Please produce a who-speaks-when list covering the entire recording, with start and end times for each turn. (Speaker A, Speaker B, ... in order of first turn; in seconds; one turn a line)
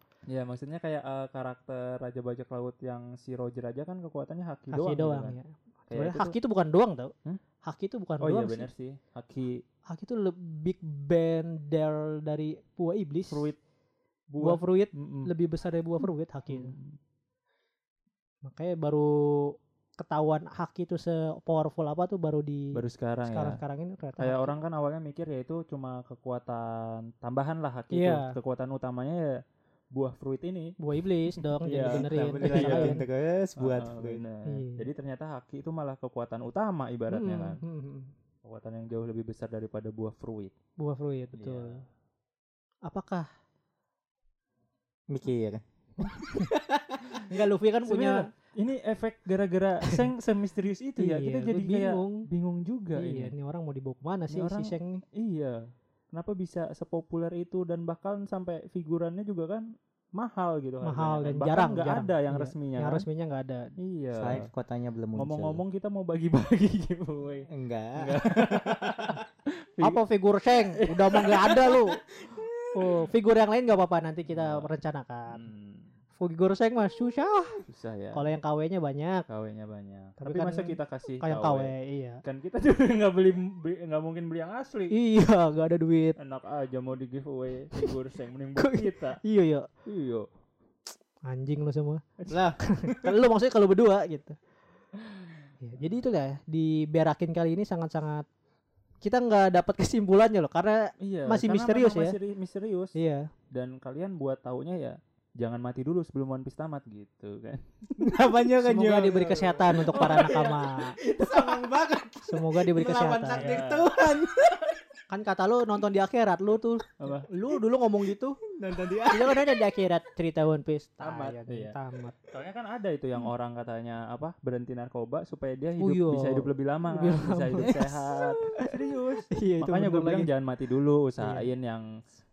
Speaker A: 0.3-5.3
Speaker B: 4.7-8.7
Speaker A: 5.9-6.3
Speaker A: 8.2-9.6
Speaker B: 9.9-13.5
Speaker A: 13.3-13.6
Speaker A: 14.3-15.3
Speaker B: 14.4-16.7
Speaker A: 16.5-17.0
Speaker B: 18.4-24.5
Speaker A: 22.7-23.6
Speaker A: 24.2-29.4
Speaker B: 27.9-28.3
Speaker A: 29.9-30.8
Speaker B: 30.8-33.0
Speaker A: 31.4-33.0
Speaker C: 31.8-34.2
Speaker A: 33.6-37.6
Speaker B: 34.5-34.9
Speaker B: 37.1-38.1
Speaker A: 38.4-40.5
Speaker B: 40.8-41.8
Speaker A: 41.4-41.7
Speaker B: 42.9-43.3
Speaker C: 45.1-47.2
Speaker B: 47.3-48.3
Speaker A: 47.9-53.3
Speaker B: 51.0-52.2
Speaker B: 53.0-55.0
Speaker A: 54.3-55.5
Speaker A: 56.1-63.0
Speaker B: 60.8-63.7
Speaker A: 63.8-64.5
Speaker C: 64.2-65.6
Speaker A: 65.2-70.0
Speaker C: 67.5-69.2
Speaker B: 69.8-72.0
Speaker A: 70.7-71.7
Speaker C: 72.1-72.7
Speaker B: 72.7-75.4
Speaker A: 74.3-74.7
Speaker A: 75.3-75.9
Speaker B: 76.2-77.6
Speaker A: 77.7-78.2
Speaker B: 78.1-79.2
Speaker A: 79.3-81.7
Speaker B: 80.2-82.2
Speaker A: 82.2-84.9
Speaker B: 84.9-86.2
Speaker A: 86.2-89.2
Speaker B: 88.6-89.7
Speaker A: 89.8-90.3
Speaker B: 91.2-92.0
Speaker C: 92.3-93.1
Speaker B: 92.7-94.4
Speaker B: 95.6-98.3
Speaker B: 99.0-102.2
Speaker A: 101.0-102.9
Speaker B: 102.9-103.3
Speaker A: 103.5-107.9
Speaker C: 108.0-110.5
Speaker B: 108.6-111.0
Speaker A: 109.9-111.7
Speaker C: 111.2-114.7
Speaker B: 112.2-113.5
Speaker A: 113.3-113.9
Speaker B: 115.1-118.4
Speaker A: 117.0-117.3
Speaker C: 118.5-119.4
Speaker B: 119.1-122.1
Speaker A: 121.0-121.8
Speaker A: 122.3-131.9
Speaker B: 125.8-128.7
Speaker B: 129.3-130.3
Speaker B: 131.2-131.5